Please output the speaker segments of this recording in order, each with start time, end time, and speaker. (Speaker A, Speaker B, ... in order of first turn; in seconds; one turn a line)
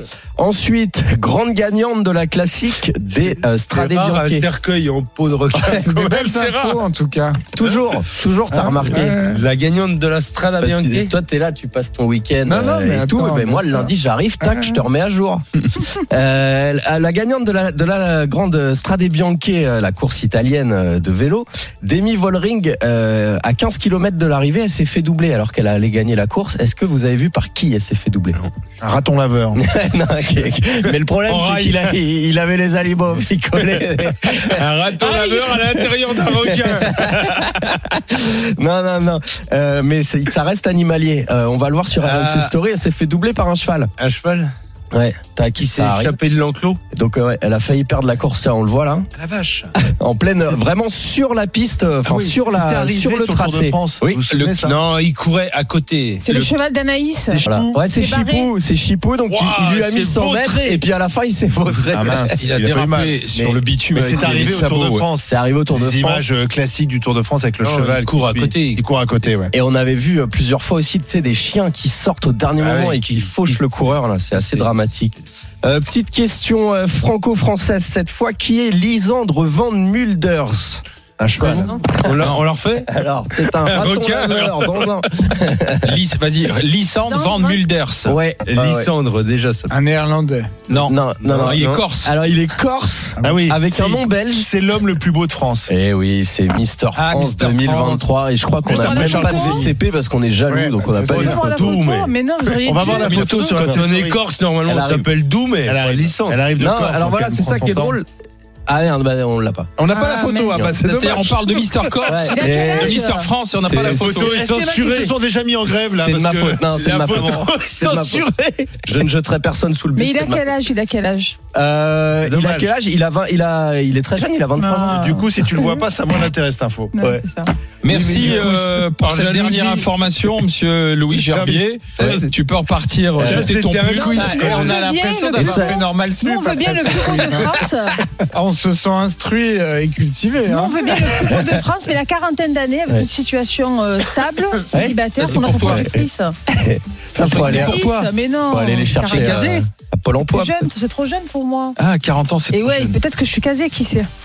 Speaker A: 0.4-4.5
Speaker B: 3.7-6.8
Speaker C: 5.6-7.4
Speaker A: 7.5-9.3
Speaker C: 8.5-9.4
Speaker B: 9.3-11.1
Speaker A: 10.6-28.4
Speaker C: 12.4-13.9
Speaker C: 14.5-14.8
Speaker D: 28.8-29.6
Speaker A: 29.5-43.9
Speaker E: 31.2-31.8
Speaker B: 34.4-37.3
Speaker B: 42.0-42.5
Speaker B: 44.0-44.5
Speaker A: 44.9-46.2
Speaker B: 45.6-46.8
Speaker A: 46.9-49.1
Speaker E: 49.1-49.4
Speaker B: 49.3-49.7
Speaker A: 49.8-54.2
Speaker D: 52.0-54.9
Speaker B: 54.3-56.4
Speaker F: 56.2-58.5
Speaker A: 57.5-62.4
Speaker E: 59.3-60.8
Speaker D: 61.9-63.2
Speaker E: 62.3-65.0
Speaker A: 63.5-64.6
Speaker D: 63.9-69.5
Speaker A: 65.2-66.2
Speaker B: 67.6-68.8
Speaker A: 69.5-80.8
Speaker B: 72.8-73.2
Speaker D: 81.2-81.7
Speaker A: 81.3-82.3
Speaker F: 81.4-81.9
Speaker E: 81.6-82.5
Speaker B: 82.0-82.9
Speaker A: 82.9-86.0
Speaker E: 83.7-85.0
Speaker E: 85.8-88.2
Speaker F: 87.1-87.6
Speaker A: 88.0-88.9
Speaker B: 88.5-89.8
Speaker D: 88.5-88.8
Speaker C: 89.7-90.5
Speaker E: 90.7-92.1
Speaker A: 90.8-94.5
Speaker B: 91.2-91.8
Speaker D: 93.2-95.7
Speaker A: 95.7-101.8
Speaker E: 96.9-98.1
Speaker F: 98.6-99.7
Speaker D: 98.7-99.7
Speaker C: 100.5-101.4
Speaker F: 101.0-103.6
Speaker B: 101.2-102.1
Speaker D: 102.6-104.2
Speaker B: 102.8-106.4
Speaker A: 104.6-105.1
Speaker D: 105.6-108.0
Speaker A: 106.5-108.1
Speaker A: 108.7-109.7
Speaker D: 109.8-112.1
Speaker F: 109.9-110.8
Speaker A: 110.5-110.8
Speaker E: 110.8-114.8
Speaker A: 112.0-113.0
Speaker F: 112.2-113.3
Speaker A: 113.7-114.3
Speaker D: 113.7-117.5
Speaker F: 114.3-114.7
Speaker B: 114.4-115.1
Speaker A: 115.9-120.5
Speaker E: 116.8-117.3
Speaker B: 117.4-118.3
Speaker F: 119.9-121.3
Speaker A: 121.5-125.1
Speaker D: 122.2-122.7
Speaker F: 124.6-126.3
Speaker D: 124.9-127.2
Speaker F: 126.9-127.5
Speaker E: 127.8-134.2
Speaker D: 127.8-129.9
Speaker D: 131.1-132.3
Speaker A: 132.0-132.3
Speaker A: 133.2-133.5
Speaker D: 133.3-134.8
Speaker C: 133.5-137.6
Speaker F: 133.8-138.0
Speaker A: 135.3-135.8
Speaker C: 138.3-141.0
Speaker F: 140.4-146.3
Speaker A: 141.1-141.5
Speaker A: 144.7-145.0
Speaker E: 145.2-145.8
Speaker A: 145.6-147.8
Speaker E: 147.1-148.1
Speaker F: 147.3-149.5
Speaker A: 148.5-150.7
Speaker E: 149.0-149.6
Speaker F: 150.2-151.8
Speaker E: 151.8-153.0
Speaker F: 152.5-154.1